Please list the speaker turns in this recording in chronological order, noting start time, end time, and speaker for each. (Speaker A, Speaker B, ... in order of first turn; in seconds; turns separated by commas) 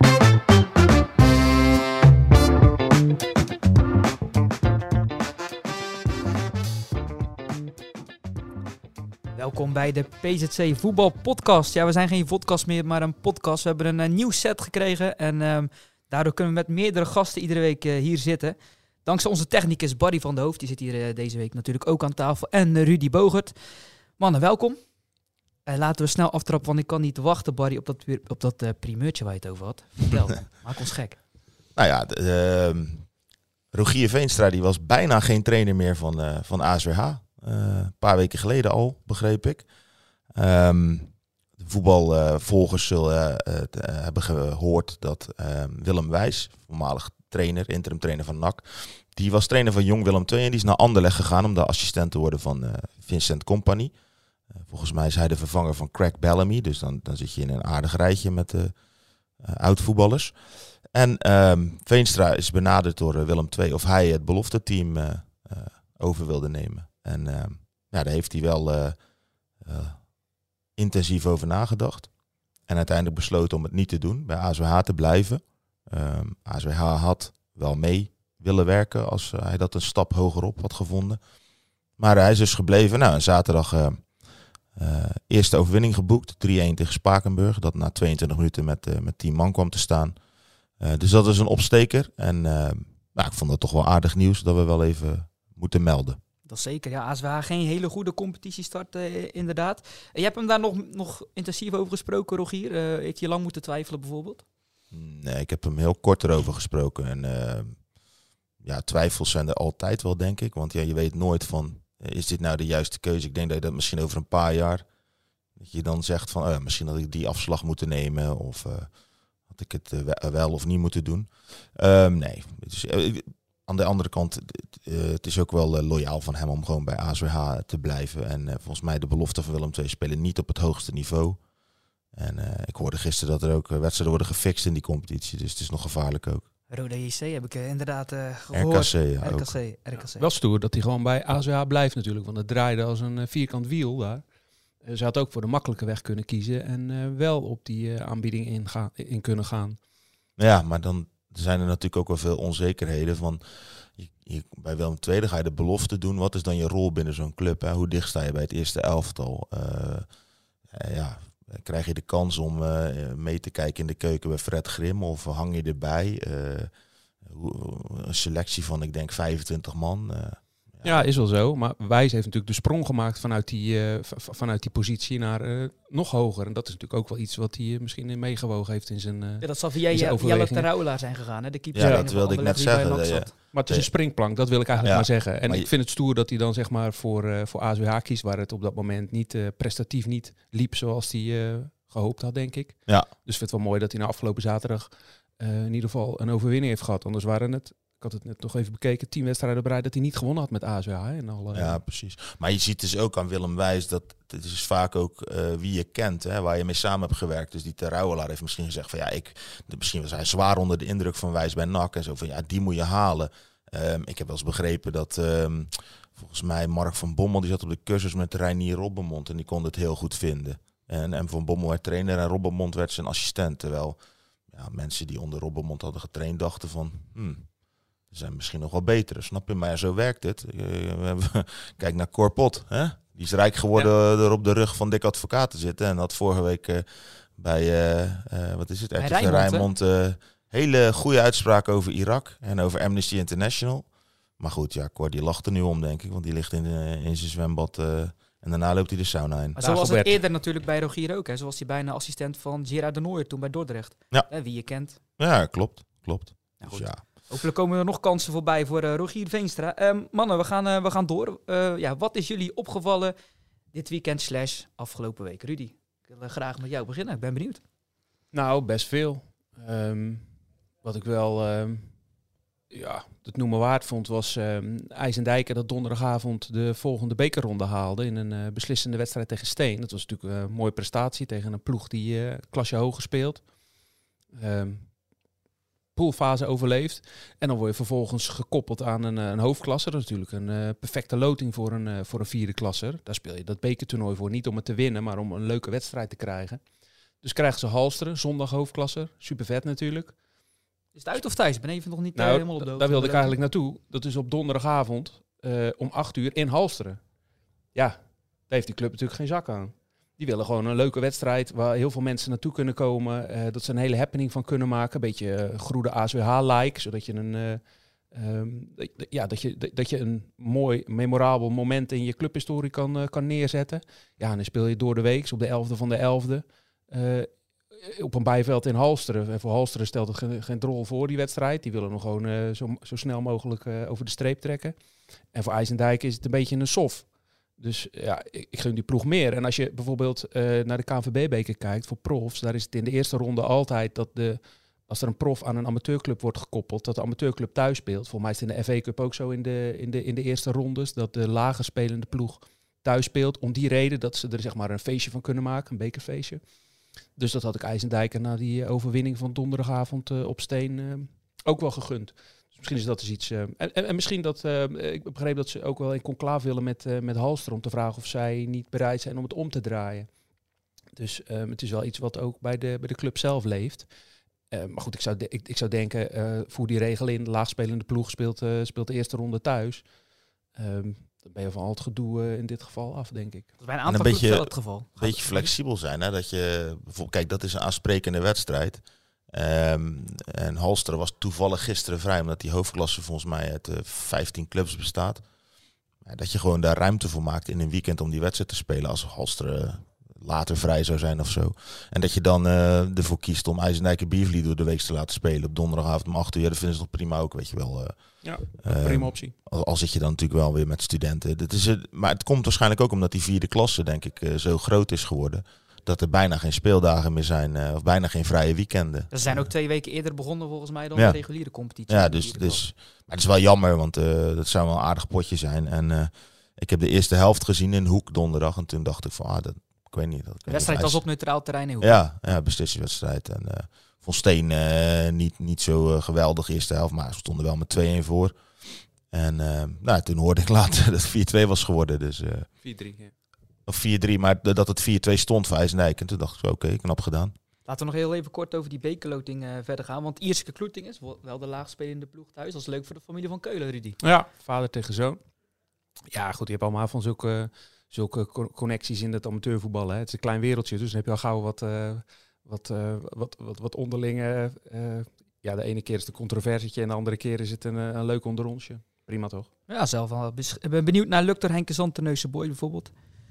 Speaker A: 9.3-24.8, Speaker A: 25.6-31.2, Speaker B: 31.7-33.1, Speaker B: 33.7-39.6, Speaker B: 40.3-53.9, Speaker B: 54.6-58.7, Speaker B: 59.4-69.0, Speaker B: 69.6-70.1, Speaker B: 70.8-72.1, Speaker B: 72.7-81.2, Speaker B: 82.0-84.2, Speaker B: 84.7-90.2, Speaker B: 90.8-96.2, Speaker A: 96.5-104.4, Speaker B: 104.9-107.8, Speaker B: 108.6-114.8, Speaker B: 115.5-118.9, Speaker B: 119.5-131.4, Speaker B: 132.1-136.4, Speaker A: 136.7-140.3, Speaker B: 138.5-139.5, Speaker C: 139.9-144.2, Speaker C: 144.8-149.8, Speaker B: 150.4-160.1, Speaker B: 160.7-166.7, Speaker B: 167.2-171.0, Speaker C: 170.8-180.7, Speaker A: 179.4-183.3, Speaker B: 181.7-183.9, Speaker C: 181.8-182.1, Speaker C: 183.5-201.8, Speaker B: 184.8-185.7, Speaker B: 201.5-224.0, Speaker B: 224.5-227.5, Speaker B: 228.1-243.9, Speaker A: 239.0-239.7, Speaker B: 244.4-249.6, Speaker A: 249.6-255.0, Speaker C: 249.6-250.2, Speaker B: 255.2-257.0, Speaker A: 256.6-263.1, Speaker A: 263.7-267.6, Speaker C: 268.3-270.3, Speaker C: 270.8-271.9, Speaker C: 272.7-283.4, Speaker C: 284.3-284.9, Speaker C: 285.9-296.6, Speaker C: 297.2-300.1, Speaker A: 300.9-303.3, Speaker C: 302.1-307.0, Speaker C: 308.5-317.6, Speaker C: 318.1-334.8, Speaker C: 335.3-337.1, Speaker C: 337.6-356.4, Speaker C: 357.1-370.1, Speaker C: 370.9-373.9, Speaker C: 374.5-379.8, Speaker C: 380.5-383.5, Speaker A: 383.6-385.5, Speaker B: 383.9-395.2, Speaker B: 396.0-419.5, Speaker C: 408.2-409.3, Speaker A: 419.1-422.6, Speaker B: 421.9-431.0, Speaker A: 430.5-432.0, Speaker B: 431.8-442.5, Speaker C: 442.6-443.1, Speaker B: 443.7-447.3, Speaker A: 447.7-454.0, Speaker C: 454.0-455.2, Speaker C: 456.1-469.5, Speaker A: 469.7-472.9